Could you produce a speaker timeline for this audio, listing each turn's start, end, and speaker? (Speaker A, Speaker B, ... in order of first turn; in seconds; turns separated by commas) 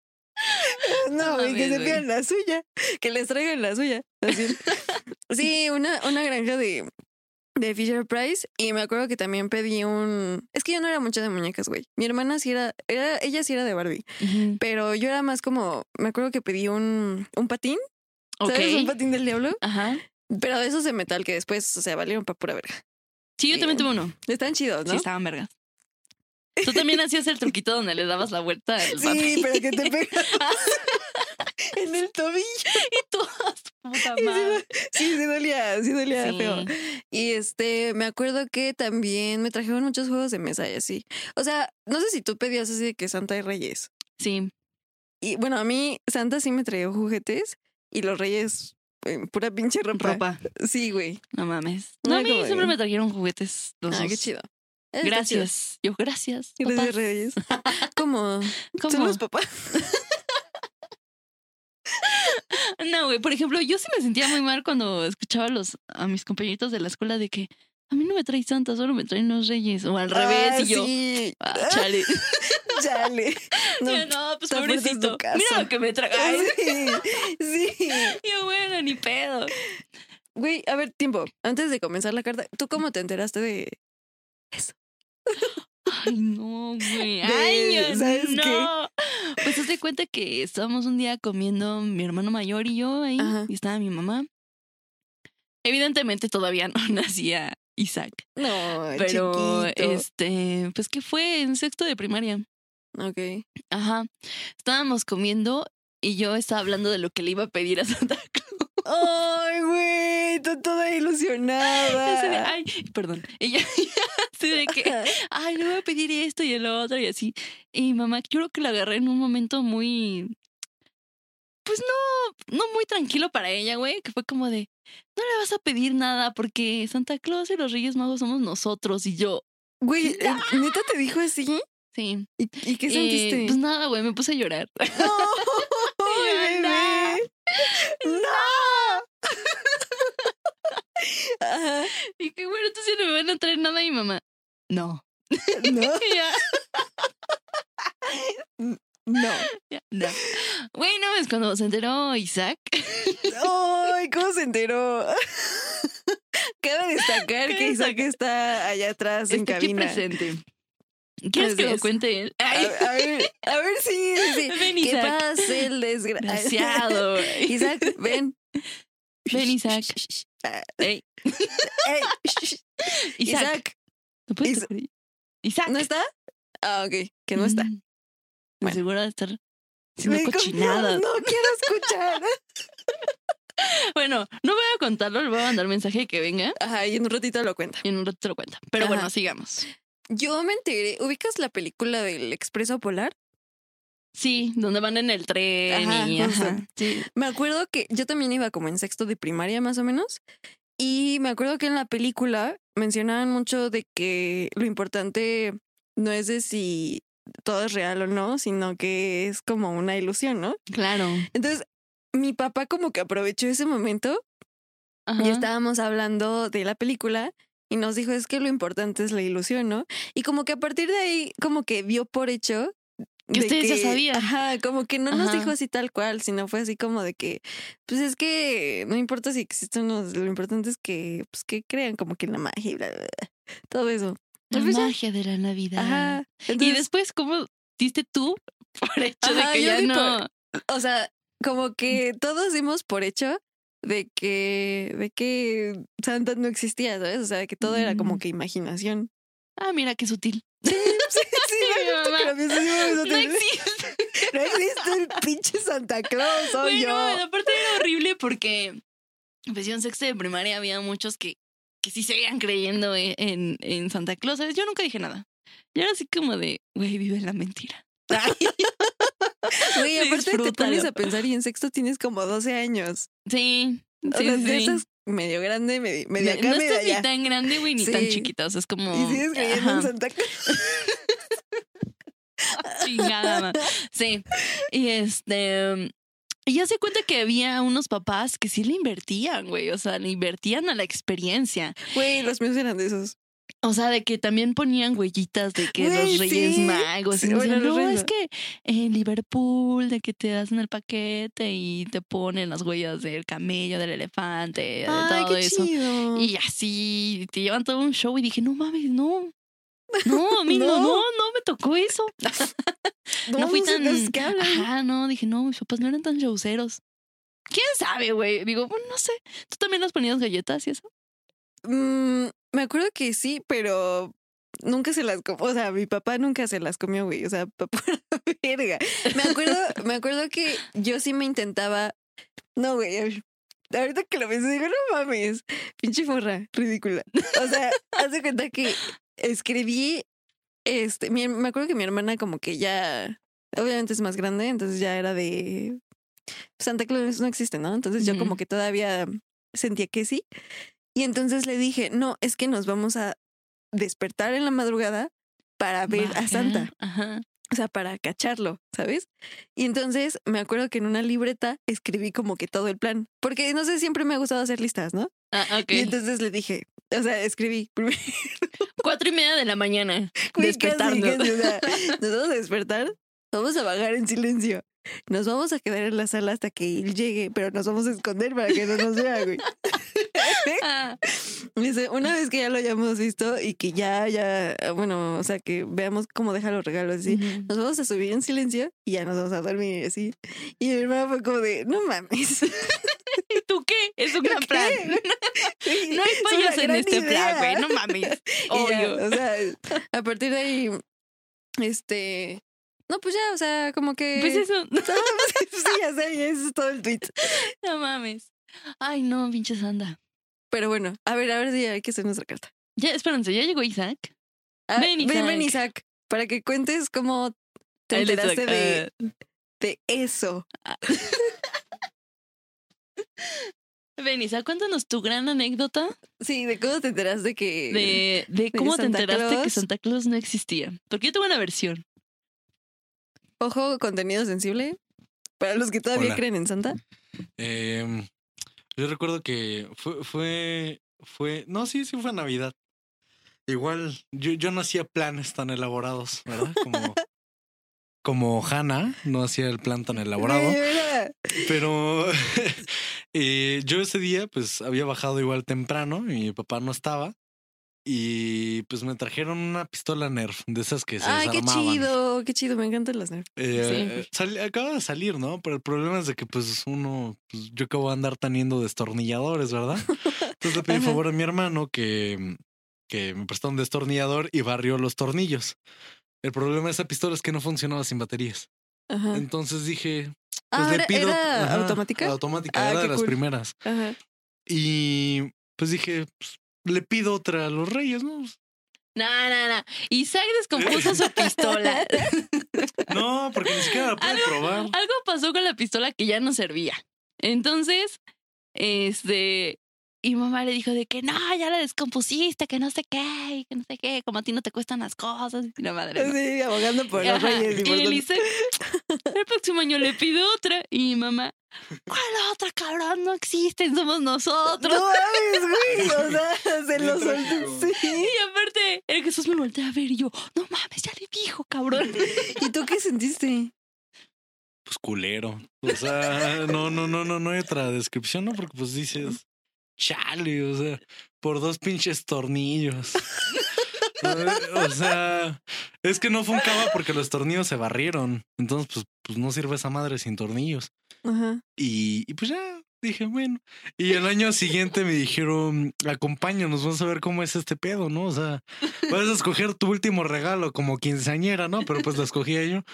Speaker A: 0.5-2.0, Speaker B: 0.6-4.8, Speaker A: 4.3-5.0, Speaker B: 5.3-6.9, Speaker B: 7.6-14.1, Speaker A: 14.2-14.6, Speaker B: 14.6-17.8, Speaker A: 18.4-18.9, Speaker B: 18.4-19.6, Speaker A: 19.6-20.0, Speaker B: 20.3-22.8, Speaker A: 23.4-24.1, Speaker B: 23.5-25.1, Speaker A: 24.9-25.5, Speaker B: 26.6-27.0, Speaker A: 26.6-31.3, Speaker B: 28.8-31.0, Speaker B: 31.7-32.9, Speaker A: 32.7-34.6, Speaker B: 34.0-43.9, Speaker A: 36.1-36.7, Speaker A: 44.2-44.5, Speaker B: 45.2-51.2, Speaker A: 49.9-50.5, Speaker A: 51.3-54.3, Speaker B: 52.0-52.8, Speaker B: 53.9-55.5, Speaker A: 55.0-57.9, Speaker B: 56.6-60.0, Speaker A: 58.8-59.2, Speaker A: 62.0-72.8, Speaker B: 70.1-78.2, Speaker A: 73.6-77.1, Speaker A: 78.0-79.6, Speaker B: 80.4-83.8, Speaker B: 85.3-86.1, Speaker A: 85.9-94.3, Speaker B: 86.9-88.7, Speaker B: 93.2-93.5, Speaker A: 95.7-98.3, Speaker B: 98.4-100.0, Speaker A: 98.9-102.5, Speaker B: 103.0-103.5, Speaker A: 103.7-108.9, Speaker B: 108.8-112.5, Speaker A: 111.6-120.3, Speaker B: 114.7-115.1, Speaker A: 121.7-129.4, Speaker B: 129.8-131.6, Speaker A: 130.0-130.9, Speaker A: 131.9-132.3, Speaker B: 132.4-133.6, Speaker A: 132.9-138.7, Speaker B: 134.9-140.0, Speaker B: 141.0-141.9, Speaker A: 142.1-146.5, Speaker B: 145.5-146.3, Speaker B: 148.0-149.5, Speaker A: 149.2-153.5, Speaker B: 153.3-160.0, Speaker A: 157.2-158.1, Speaker A: 159.3-160.4, Speaker A: 161.3-163.3, Speaker B: 161.3-161.9, Speaker B: 162.5-168.4, Speaker A: 164.2-165.7, Speaker A: 166.2-168.0, Speaker B: 169.3-170.8, Speaker A: 169.3-170.0, Speaker A: 170.8-172.1, Speaker B: 171.7-172.7, Speaker A: 172.9-173.6, Speaker B: 173.2-173.8, Speaker A: 174.3-174.9, Speaker A: 175.4-175.9, Speaker B: 175.7-176.1, Speaker B: 176.6-177.7, Speaker A: 177.4-177.8, Speaker A: 178.6-179.4, Speaker A: 180.0-181.2, Speaker B: 180.0-182.3, Speaker A: 183.6-186.6, Speaker B: 186.6-187.8, Speaker A: 187.8-189.7, Speaker B: 188.8-189.1, Speaker B: 190.1-193.2, Speaker A: 194.2-197.1, Speaker B: 195.7-200.2, Speaker B: 200.8-210.6, Speaker A: 210.7-211.3, Speaker B: 211.3-214.2, Speaker A: 215.1-215.5, Speaker B: 215.2-222.7, Speaker B: 223.3-234.9, Speaker A: 223.3-224.3, Speaker A: 225.1-225.5, Speaker A: 234.5-240.3, Speaker B: 235.8-236.9, Speaker B: 239.2-249.1, Speaker A: 247.6-248.2, Speaker A: 249.6-255.2, Speaker B: 250.7-253.5, Speaker B: 254.2-257.5, Speaker A: 256.4-258.8, Speaker A: 259.5-268.7, Speaker B: 268.1-268.7, Speaker A: 269.4-270.9, Speaker B: 269.6-273.1, Speaker A: 273.3-274.8, Speaker B: 274.1-277.1, Speaker A: 276.2-279.9, Speaker B: 277.8-278.3, Speaker B: 278.9-281.0, Speaker B: 282.5-283.4, Speaker A: 282.8-285.9, Speaker A: 286.5-291.9, Speaker B: 291.9-293.2, Speaker A: 293.6-309.3, Speaker B: 295.6-298.1, Speaker B: 304.9-306.3, Speaker B: 309.9-311.0, Speaker A: 310.0-312.5, Speaker B: 313.3-314.7, Speaker A: 313.3-316.8, Speaker A: 317.5-320.9, Speaker B: 321.6-331.9, Speaker A: 329.2-329.6, Speaker B: 332.6-340.1, Speaker B: 340.7-345.8, Speaker B: 346.6-350.2, Speaker A: 348.0-348.4, Speaker B: 350.9-353.2, Speaker B: 353.7-356.7, Speaker A: 355.9-357.2, Speaker B: 357.5-365.1, Speaker A: 365.3-365.9, Speaker B: 365.7-368.5, Speaker A: 368.8-372.0, Speaker B: 370.3-393.0, Speaker A: 380.2-381.0, Speaker A: 387.1-387.5, Speaker A: 393.1-399.2, Speaker B: 394.2-400.8, Speaker B: 401.6-407.4, Speaker A: 404.1-405.5, Speaker A: 407.2-410.0, Speaker B: 410.5-412.5, Speaker A: 412.8-414.1, Speaker B: 414.7-417.4, Speaker A: 414.8-415.6, Speaker B: 417.9-418.9, Speaker A: 417.9-418.9, Speaker B: 419.6-420.5, Speaker A: 420.7-421.3, Speaker A: 424.0-426.0, Speaker B: 426.2-429.6, Speaker A: 427.7-431.9, Speaker B: 433.4-434.8, Speaker B: 435.4-436.8, Speaker C: 435.9-436.2, Speaker C: 437.4-438.1, Speaker C: 438.8-442.6, Speaker C: 443.5-447.0, Speaker B: 446.6-446.9, Speaker C: 448.0-450.6, Speaker B: 450.2-451.5, Speaker C: 451.4-457.1, Speaker C: 457.9-461.9, Speaker B: 461.0-463.3, Speaker C: 463.4-472.4, Speaker A: 463.6-464.0, Speaker B: 470.7-471.0, Speaker C: 472.9-475.6, Speaker C: 476.2-478.5, Speaker B: 478.9-479.2, Speaker C: 479.1-483.6, Speaker B: 480.5-484.0, Speaker C: 484.5-488.4, Speaker A: 488.9-492.9, Speaker C: 490.6-491.1, Speaker B: 491.2-492.1, Speaker C: 492.9-494.8, Speaker A: 493.9-498.0, Speaker A: 498.6-506.2, Speaker B: 506.0-509.1, Speaker A: 507.0-508.3, Speaker A: 509.1-511.3, Speaker A: 511.9-515.0, Speaker B: 514.6-518.1, Speaker C: 515.7-516.2, Speaker C: 516.7-517.7, Speaker A: 517.8-522.4, Speaker B: 522.3-523.5, Speaker C: 524.7-529.2, Speaker C: 529.8-533.3, Speaker C: 534.0-540.7, Speaker B: 541.0-541.4, Speaker C: 541.6-552.6